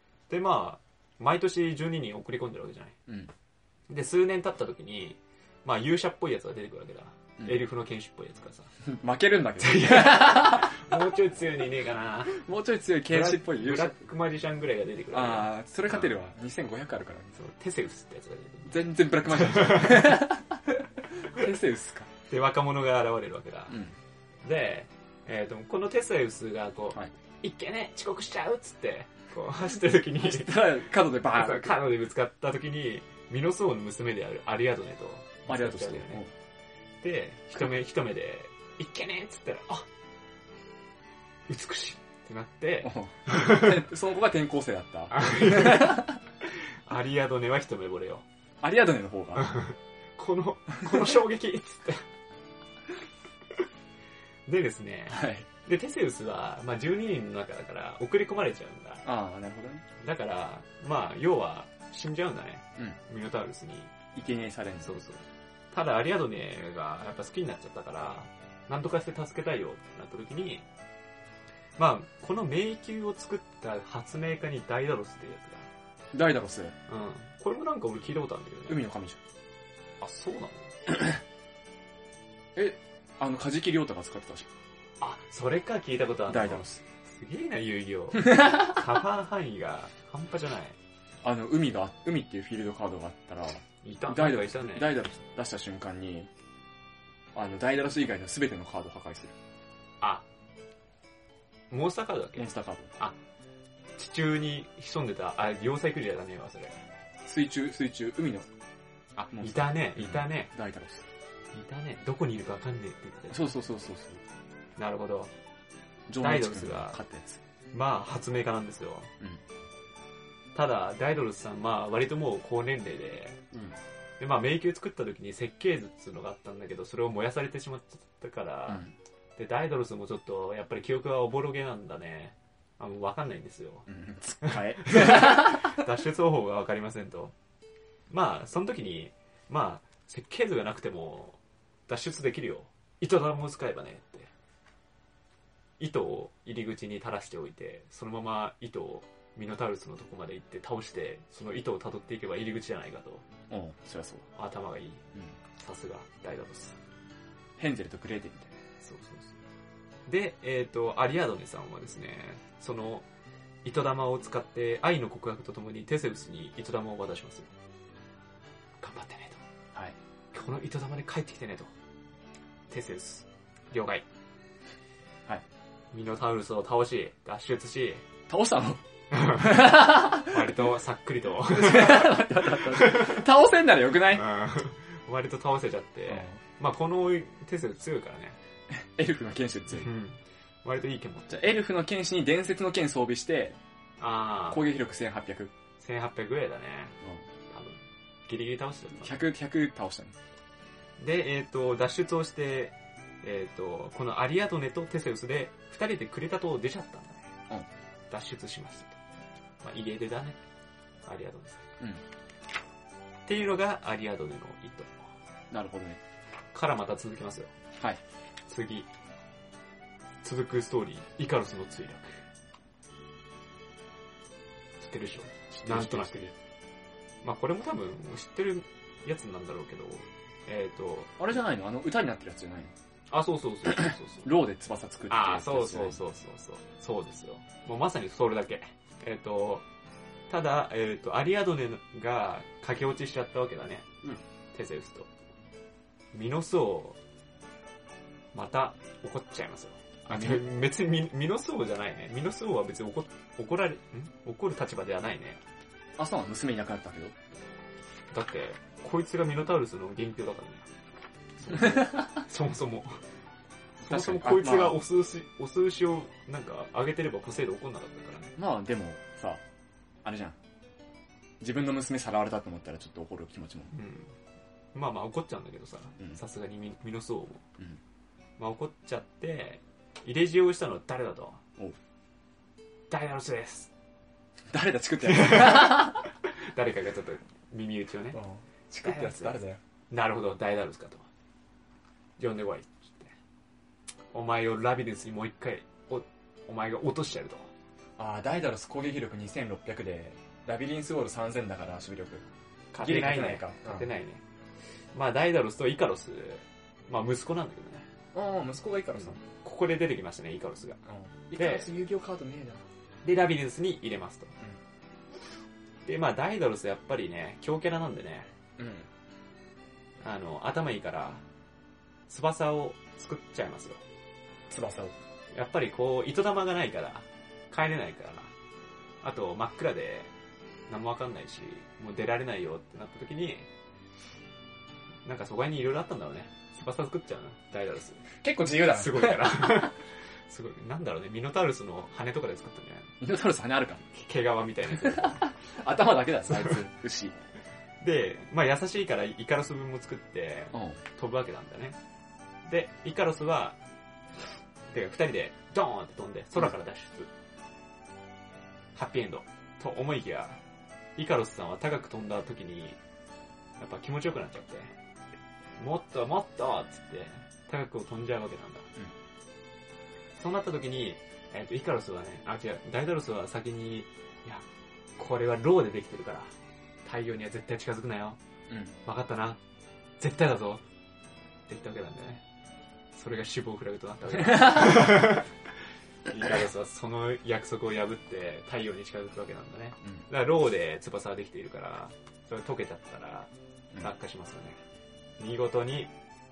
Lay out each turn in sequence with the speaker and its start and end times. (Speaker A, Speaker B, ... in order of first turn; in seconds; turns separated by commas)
Speaker A: 0.3-3.0, Speaker B: 3.1-3.3, Speaker A: 3.9-8.7, Speaker B: 8.8-10.8, Speaker A: 9.6-12.3, Speaker B: 12.3-14.0, Speaker A: 13.1-16.1, Speaker B: 15.1-17.4, Speaker A: 17.3-20.3, Speaker B: 18.7-22.1, Speaker A: 22.3-23.8, Speaker B: 23.7-23.9, Speaker A: 24.4-30.7, Speaker B: 30.2-31.8, Speaker A: 31.2-36.2, Speaker B: 35.5-36.3, Speaker A: 37.0-39.9, Speaker A: 41.5-43.8, Speaker B: 42.8-46.1, Speaker A: 45.1-48.2, Speaker B: 48.6-49.6, Speaker A: 49.4-52.0, Speaker A: 54.5-59.0, Speaker B: 55.1-55.5, Speaker B: 59.0-59.8, Speaker A: 60.0-63.9, Speaker B: 64.1-64.9, Speaker A: 64.8-70.6, Speaker A: 71.8-75.7, Speaker B: 76.1-76.8, Speaker A: 76.9-78.8, Speaker B: 78.7-79.2, Speaker A: 80.0-80.7, Speaker B: 82.5-84.5, Speaker A: 85.0-90.8, Speaker B: 86.3-86.8, Speaker B: 91.2-96.3, Speaker A: 93.8-94.9, Speaker B: 97.3-99.3, Speaker A: 100.0-100.2, Speaker A: 101.7-103.2, Speaker B: 102.4-102.9, Speaker A: 104.0-106.8, Speaker B: 107.2-108.5, Speaker B: 109.2-111.0, Speaker A: 109.4-110.5, Speaker A: 111.5-113.5, Speaker B: 113.3-114.2, Speaker A: 114.8-115.3, Speaker B: 116.1-117.4, Speaker A: 116.2-117.0, Speaker A: 117.7-119.1, Speaker A: 120.5-123.4, Speaker B: 123.5-123.8, Speaker A: 124.2-128.8, Speaker B: 128.7-128.9, Speaker A: 129.4-133.9, Speaker B: 133.9-135.7, Speaker A: 134.4-137.3, Speaker A: 138.1-144.3, Speaker A: 145.8-153.2, Speaker B: 153.5-154.3, Speaker A: 154.3-155.0, Speaker A: 155.6-156.8, Speaker B: 157.6-158.5, Speaker A: 158.8-159.3, Speaker A: 160.1-163.1, Speaker A: 163.6-167.5, Speaker A: 168.8-169.4, Speaker A: 170.3-171.7, Speaker A: 172.7-174.0, Speaker A: 175.9-178.0, Speaker B: 178.3-180.5, Speaker A: 179.1-183.2, Speaker B: 181.4-184.2, Speaker A: 184.1-188.4, Speaker B: 186.1-186.4, Speaker B: 188.7-189.9, Speaker A: 189.7-191.3, Speaker B: 191.3-193.6, Speaker A: 194.0-194.6, Speaker B: 194.5-195.5, Speaker A: 195.8-196.9, Speaker A: 197.5-199.2, Speaker B: 199.0-200.1, Speaker A: 201.0-207.3, Speaker A: 208.1-209.0, Speaker A: 209.6-210.4, Speaker A: 211.1-211.6, Speaker A: 213.3-215.1, Speaker B: 215.5-216.0, Speaker A: 216.5-217.5, Speaker A: 218.5-218.9, Speaker A: 220.2-222.2, Speaker A: 224.8-226.3, Speaker B: 225.5-226.3, Speaker A: 227.2-231.2, Speaker B: 231.2-232.7, Speaker A: 233.1-234.3, Speaker B: 233.7-236.0, Speaker A: 235.1-239.6, Speaker A: 240.3-243.9, Speaker A: 244.5-245.1, Speaker A: 246.1-247.0, Speaker A: 248.3-255.4, Speaker B: 250.1-250.4, Speaker B: 256.0-257.1, Speaker A: 258.1-260.6, Speaker A: 261.4-263.0, Speaker B: 261.4-262.2, Speaker A: 263.8-268.3, Speaker B: 263.8-264.8, Speaker B: 268.4-269.4, Speaker B: 270.0-270.4, Speaker B: 271.4-273.7, Speaker A: 273.7-274.1, Speaker A: 274.7-277.4, Speaker A: 278.4-281.4, Speaker A: 282.9-283.7, Speaker B: 284.5-286.0, Speaker A: 285.0-288.2, Speaker B: 288.1-289.6, Speaker A: 288.8-289.4, Speaker A: 289.9-291.1, Speaker A: 292.2-293.1, Speaker A: 294.1-297.5, Speaker B: 298.0-302.2, Speaker A: 302.7-304.2, Speaker B: 302.8-303.9, Speaker A: 304.9-307.9, Speaker B: 308.1-309.2, Speaker A: 308.9-310.8, Speaker B: 310.9-312.6, Speaker A: 311.3-311.7, Speaker A: 313.0-314.3, Speaker A: 315.8-318.3, Speaker B: 318.6-318.9, Speaker A: 320.0-321.2, Speaker A: 322.1-323.8, Speaker B: 324.5-324.9, Speaker A: 325.3-328.3, Speaker A: 329.0-330.1, Speaker A: 330.7-333.5, Speaker A: 335.0-338.1, Speaker B: 338.2-339.6, Speaker A: 338.6-342.9, Speaker B: 343.0-343.8, Speaker A: 343.9-345.3, Speaker B: 344.8-347.1, Speaker A: 346.2-346.6, Speaker A: 347.8-351.8, Speaker B: 350.5-350.8, Speaker A: 352.4-353.6, Speaker A: 354.7-357.1, Speaker A: 358.7-360.4, Speaker A: 361.0-362.8, Speaker A: 363.6-364.7, Speaker A: 365.6-368.7, Speaker A: 370.2-374.4, Speaker A: 375.0-376.3, Speaker A: 376.8-378.2, Speaker B: 378.5-378.7, Speaker A: 378.8-379.4, Speaker A: 380.0-380.6, Speaker A: 381.5-382.2, Speaker A: 382.9-385.3, Speaker B: 384.1-385.1, Speaker A: 386.1-393.3, Speaker A: 393.8-394.6, Speaker A: 395.2-395.9